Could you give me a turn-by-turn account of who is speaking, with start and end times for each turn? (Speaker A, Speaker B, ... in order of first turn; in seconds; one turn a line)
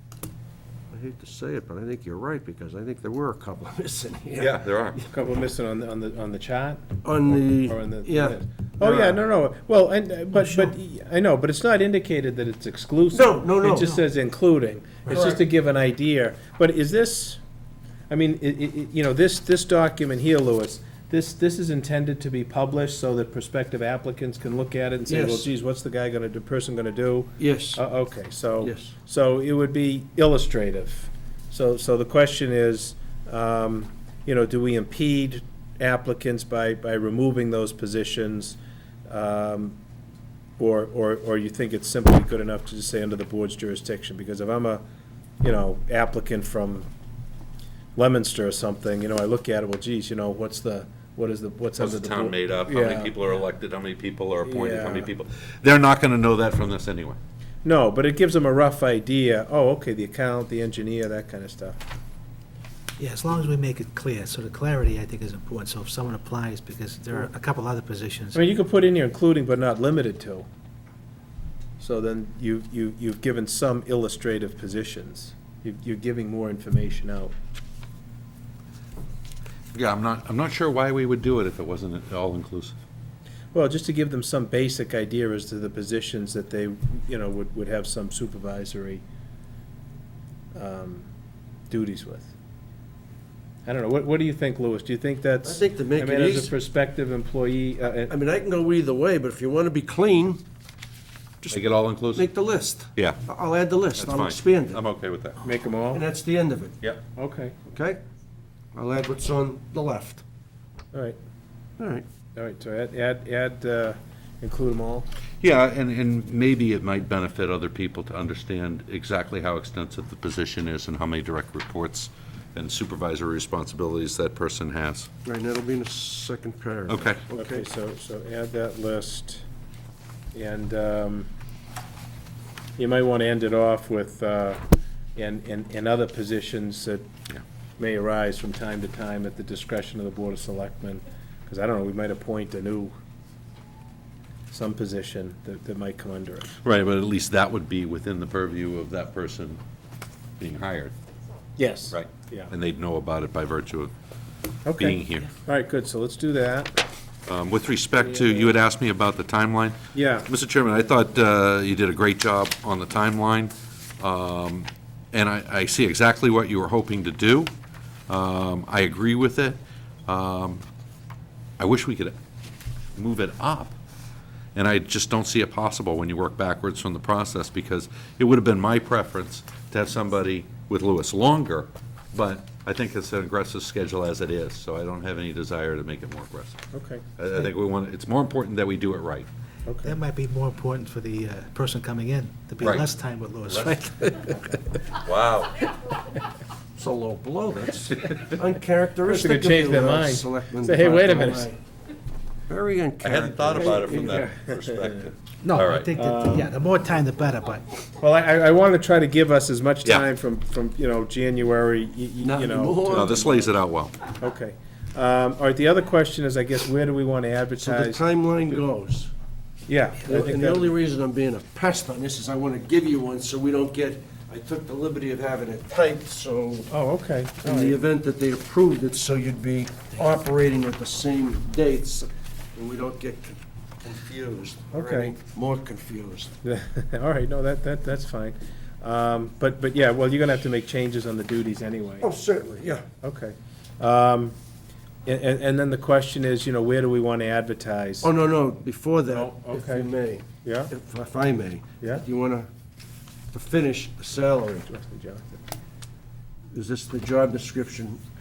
Speaker A: 0.9-5.1
Speaker B: 4.4-5.0
Speaker C: 5.1-17.4
Speaker A: 7.0-9.2
Speaker D: 10.4-10.7
Speaker A: 13.1-13.9
Speaker A: 15.1-15.4
Speaker C: 18.1-39.8
Speaker A: 25.1-25.5
Speaker A: 27.4-27.8
Speaker A: 28.6-28.9
Speaker C: 40.6-44.8
Speaker C: 45.4-46.9
Speaker C: 48.0-53.1
Speaker B: 51.8-57.2
Speaker C: 54.4-55.1
Speaker C: 57.6-61.8
Speaker D: 63.0-68.4
Speaker C: 68.3-70.5
Speaker C: 71.8-77.3
Speaker B: 79.7-82.8
Speaker C: 83.5-89.0
Speaker C: 90.5-91.1
Speaker C: 91.7-92.3
Speaker C: 93.7-98.1
Speaker A: 95.5-96.5
Speaker A: 98.1-100.4
Speaker B: 101.5-102.3
Speaker A: 102.1-104.8
Speaker B: 103.0-103.2
Speaker B: 104.0-105.4
Speaker C: 105.4-106.0
Speaker A: 105.9-106.8
Speaker C: 107.2-107.5
Speaker A: 107.7-108.0
Speaker A: 108.7-110.2
Speaker A: 111.8-112.1
Speaker C: 112.4-115.1
Speaker B: 115.4-125.1
Speaker A: 125.2-127.7
Speaker B: 126.9-127.2
Speaker C: 127.3-129.4
Speaker C: 130.3-131.3
Speaker C: 132.8-134.6
Speaker C: 135.2-137.1
Speaker C: 137.8-142.9
Speaker C: 144.5-146.5
Speaker B: 146.6-149.6
Speaker B: 150.4-150.9
Speaker C: 151.6-152.5
Speaker B: 151.9-153.9
Speaker C: 154.7-156.8
Speaker B: 154.8-155.3
Speaker B: 157.3-167.5
Speaker C: 158.0-158.5
Speaker C: 159.9-160.3
Speaker B: 168.1-170.6
Speaker B: 171.6-172.2
Speaker B: 173.0-173.8
Speaker B: 174.6-186.6
Speaker C: 186.7-187.1
Speaker B: 187.2-189.3
Speaker C: 189.7-189.9
Speaker D: 189.8-194.6
Speaker B: 192.6-192.9
Speaker B: 193.5-194.4
Speaker B: 195.0-195.6
Speaker A: 196.8-201.6
Speaker C: 199.1-201.5
Speaker A: 202.5-204.2
Speaker B: 203.0-205.9
Speaker C: 203.5-205.1
Speaker D: 205.4-207.7
Speaker C: 205.9-206.5
Speaker C: 208.0-213.4
Speaker A: 212.2-213.5
Speaker B: 212.9-214.0
Speaker C: 214.2-218.0
Speaker A: 217.6-219.1
Speaker C: 219.7-220.7
Speaker A: 220.0-226.7
Speaker C: 226.7-227.8
Speaker A: 227.4-236.3
Speaker C: 234.7-235.2
Speaker C: 236.4-242.1
Speaker A: 242.0-242.9
Speaker C: 243.0-244.4
Speaker C: 245.1-248.1
Speaker A: 248.0-252.5
Speaker C: 249.1-249.9
Speaker C: 250.4-250.7
Speaker A: 253.3-254.7
Speaker C: 254.7-255.4
Speaker A: 256.5-258.0